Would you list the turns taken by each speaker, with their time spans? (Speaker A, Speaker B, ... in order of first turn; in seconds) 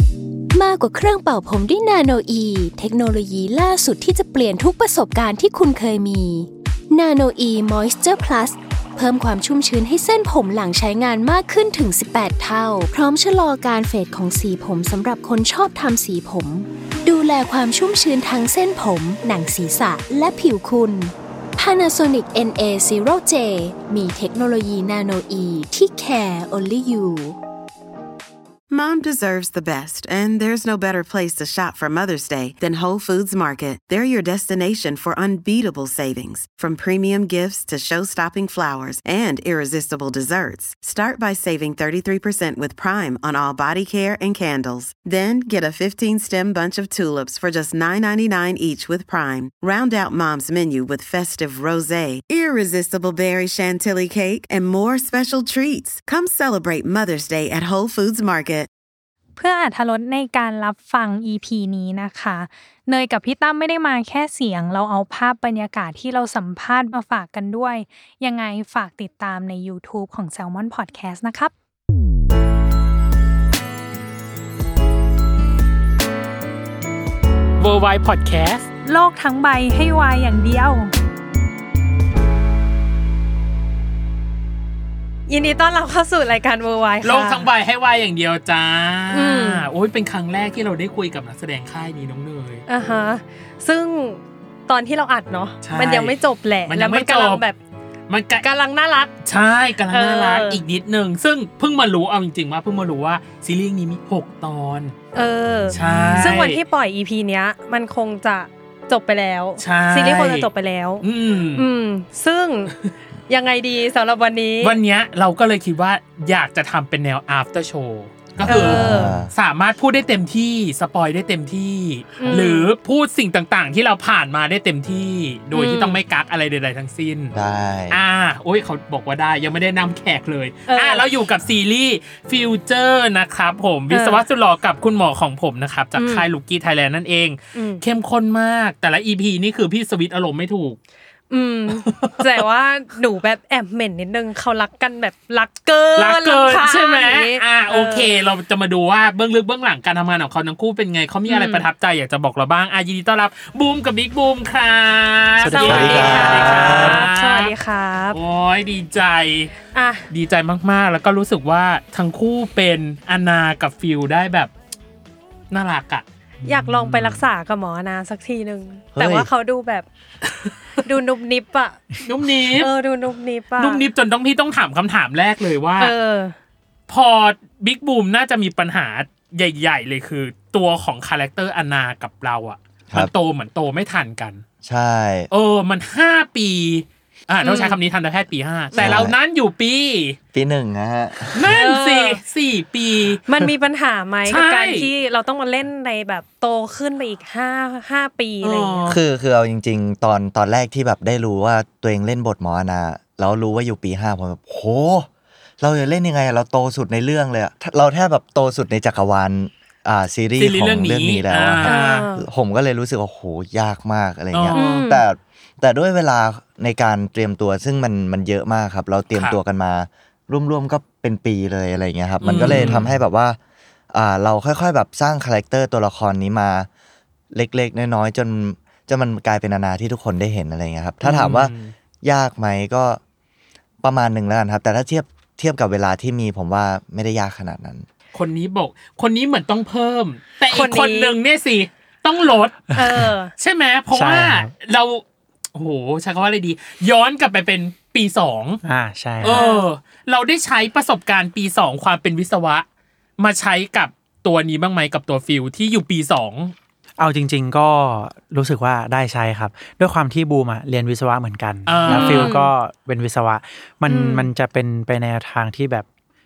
Speaker A: 0.5-27.4
Speaker B: 28.7-58.7
Speaker C: 59.4-71.5, 78.8-80.9, 85.3-87.5, 89.1-89.6, 92.7-97.6, 98.4-99.1, 99.9-100.6, 105.1-111.0, 111.5-112.7, 113.3-114.7, 118.5-119.1, 122.2-122.7, 125.5-126.0, 130.7-131.0, 133.9-134.2, 135.9-136.2, 137.5-137.8, 141.3-148.1, 151.3-151.7, 155.5-158.2, 159.7-160.0, 166.4-169.8, 170.8-171.8, 172.6-173.8, 175.8-176.3, 187.4-187.8, 188.7-189.0, 191.5-192.2, 193.3-198.8, 211.6-212.2, 214.5-215.0, 240.5-241.2, 242.7-243.3, 249.2-249.7, 261.9-262.5, 263.9-264.3
Speaker D: 77.6-78.7, 87.0-92.6, 95.6-96.2, 96.7-97.4, 98.1-98.4, 99.2-104.9, 105.7-106.6, 109.6-110.5, 111.0-111.6, 114.6-127.3, 127.9-140.8, 141.7-142.2, 145.9-157.5, 158.1-159.5, 160.1-164.5, 165.5-166.0, 172.0-172.7, 173.6-175.9, 176.9-184.4, 185.3-190.2, 191.3-193.2, 194.3-194.9, 198.4-199.0, 210.4-212.1, 214.3-214.8, 219.1-219.4, 222.2-222.9, 231.0-231.7, 238.1-242.7, 243.4-245.0, 245.5-248.6, 249.2-252.6, 253.2-256.5, 261.7-262.3
Speaker E: 105.8-106.2, 118.4-119.3, 127.3-128.0, 155.6-156.9, 168.9-169.3, 184.6-185.3, 188.8-189.1, 190.3-191.5, 198.8-205.1, 205.6-223.4, 223.9-226.7, 227.3-233.0, 233.8-237.8
Speaker F: 155.4-157.0, 166.4-167.2, 243.9-244.5, 248.6-249.4, 257.0-265.9